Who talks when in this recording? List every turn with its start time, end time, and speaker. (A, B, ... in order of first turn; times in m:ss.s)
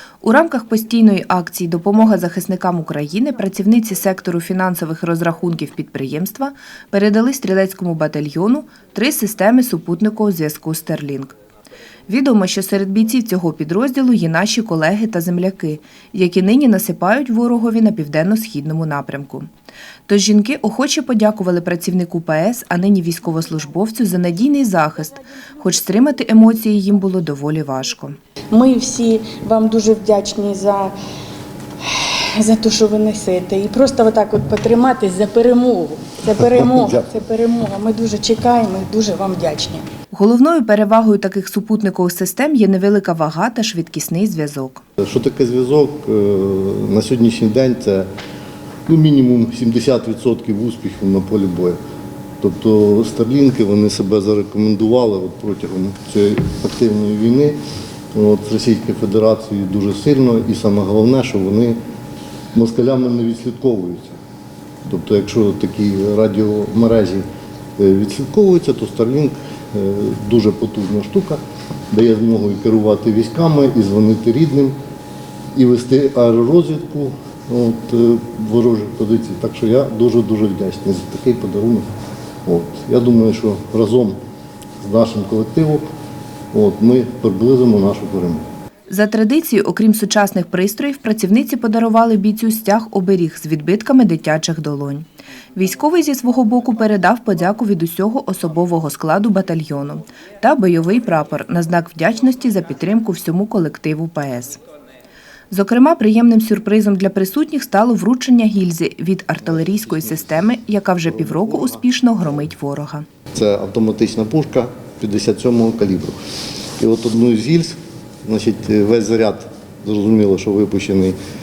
0:00.2-0:11.4 A
0:12.1-0:19.5 A
0:20.1-0:28.2 A
0:28.5-0:31.0 B
0:31.8-0:39.9 B
0:40.1-0:44.8 A
0:45.0-0:48.1 C
0:48.9-0:51.8 C
0:52.4-0:57.6 C
0:58.1-1:01.8 C
1:02.5-1:04.2 C
1:04.9-1:07.2 C
1:07.8-1:14.8 C
1:15.5-1:21.9 C
1:22.5-1:24.2 C
1:24.8-1:25.8 C
1:26.5-1:28.5 C
1:28.9-1:44.6 A
1:45.5-1:53.1 A
1:51.2-1:51.8 C
1:53.3-1:56.2 C
1:56.8-2:01.2 C